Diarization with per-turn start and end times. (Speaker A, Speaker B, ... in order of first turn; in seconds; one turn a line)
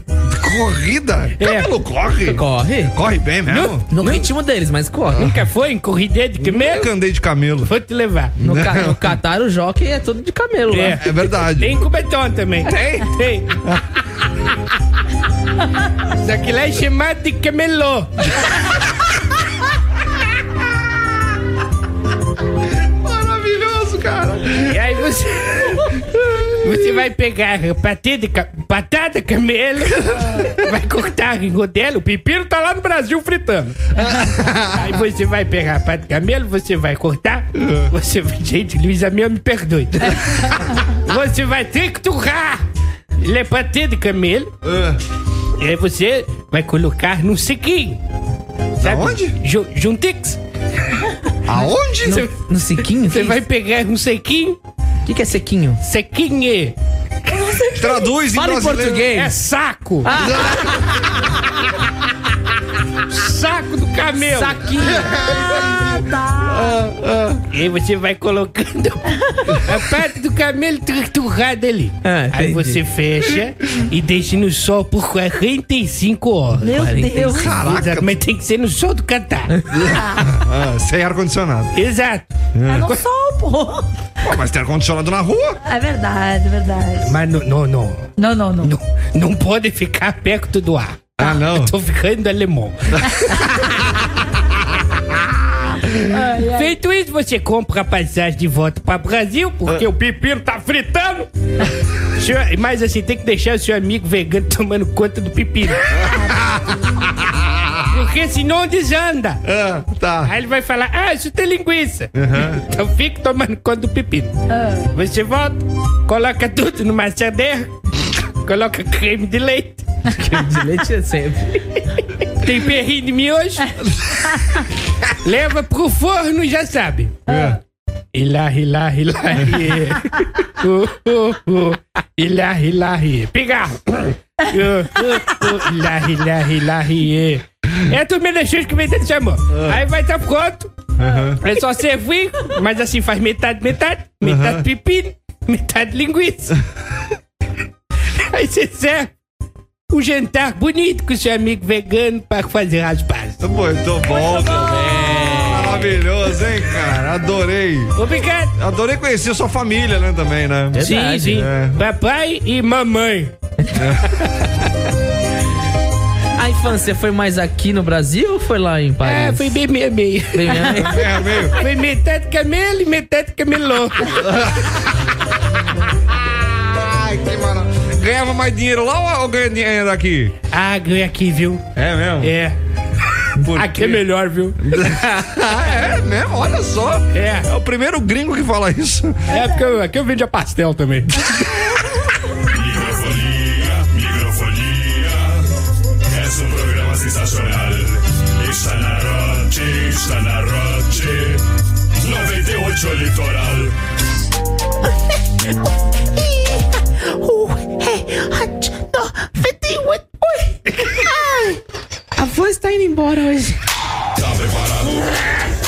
Speaker A: 0.2-3.9
Speaker B: 1.4-1.7
Speaker C: 2.2-2.9
Speaker B: 3.5-4.2
Speaker C: 3.9-5.3
Speaker B: 5.2-6.9
Speaker A: 6.4-7.7
Speaker B: 7.7-8.3
Speaker C: 8.4-11.0
Speaker A: 8.4-9.2
Speaker B: 10.7-13.5
Speaker A: 10.9-11.8
Speaker A: 12.7-13.1
Speaker B: 16.2-18.1
Speaker A: 22.9-24.8
Speaker B: 24.6-25.9
Speaker A: 26.1-26.9
Speaker B: 26.6-33.9
Speaker A: 34.0-35.0
Speaker B: 34.7-42.6
Speaker A: 37.6-37.9
Speaker B: 43.2-44.5
Speaker A: 44.6-45.0
Speaker B: 45.6-48.0
Speaker B: 48.8-50.4
Speaker A: 48.8-49.4
Speaker A: 51.5-52.3
Speaker C: 52.0-53.4
Speaker B: 53.1-54.6
Speaker C: 55.0-55.8
Speaker B: 55.8-56.7
Speaker D: 57.3-58.1
Speaker A: 57.7-59.2
Speaker C: 58.3-59.3
Speaker B: 59.1-60.1
Speaker C: 60.0-60.8
Speaker A: 60.2-60.7
Speaker B: 63.1-64.8
Speaker C: 64.2-65.0
Speaker A: 64.9-67.4
Speaker D: 65.1-66.8
Speaker B: 67.5-76.8
Speaker C: 72.0-72.8
Speaker D: 76.6-77.5
Speaker C: 76.7-77.5
Speaker A: 77.3-78.2
Speaker B: 77.5-79.5
Speaker A: 79.7-81.7
Speaker B: 81.7-82.3
Speaker A: 82.5-82.9
Speaker D: 82.7-83.9
Speaker A: 84.2-85.6
Speaker D: 85.6-87.2
Speaker B: 87.0-88.1
Speaker D: 88.2-88.7
Speaker B: 88.6-93.7
Speaker A: 91.2-91.7
Speaker D: 96.0-96.8
Speaker B: 96.4-101.3
Speaker B: 102.1-105.9
Speaker A: 106.0-107.7
Speaker B: 107.9-109.4
Speaker A: 109.4-110.3
Speaker B: 110.2-114.3
Speaker A: 112.1-112.6
Speaker D: 114.5-114.9
Speaker B: 114.9-117.7
Speaker B: 118.4-120.4
Speaker C: 120.1-121.6
Speaker B: 122.4-123.7
Speaker B: 125.2-127.2
Speaker A: 127.3-127.6
Speaker D: 127.3-127.5
Speaker B: 128.1-140.7
Speaker A: 139.5-139.8
Speaker A: 141.0-141.4
Speaker B: 141.4-146.6
Speaker A: 144.2-144.7
Speaker B: 148.3-149.1
Speaker B: 149.9-153.4
Speaker A: 153.4-157.9
Speaker C: 154.3-155.9
Speaker B: 157.9-158.5
Speaker A: 158.6-161.8
Speaker C: 160.7-161.4
Speaker B: 160.8-163.3
Speaker A: 163.7-164.2
Speaker C: 166.4-169.6
Speaker B: 169.0-170.9
Speaker C: 170.3-171.0
Speaker A: 170.7-171.6
Speaker B: 171.5-174.2
Speaker A: 174.2-174.7
Speaker A: 176.2-180.3
Speaker B: 180.5-181.6
Speaker A: 181.8-182.3
Speaker B: 182.2-182.6
Speaker A: 183.4-184.1
Speaker B: 183.5-184.9
Speaker A: 184.6-189.3
Speaker B: 187.1-187.5
Speaker B: 189.3-191.3
Speaker D: 189.3-189.6
Speaker E: 192.5-195.4
Speaker E: 196.1-201.4
Speaker E: 202.0-203.7
Speaker F: 207.1-210.5
Speaker F: 211.1-211.6
Speaker F: 212.2-213.6
Speaker E: 214.2-215.2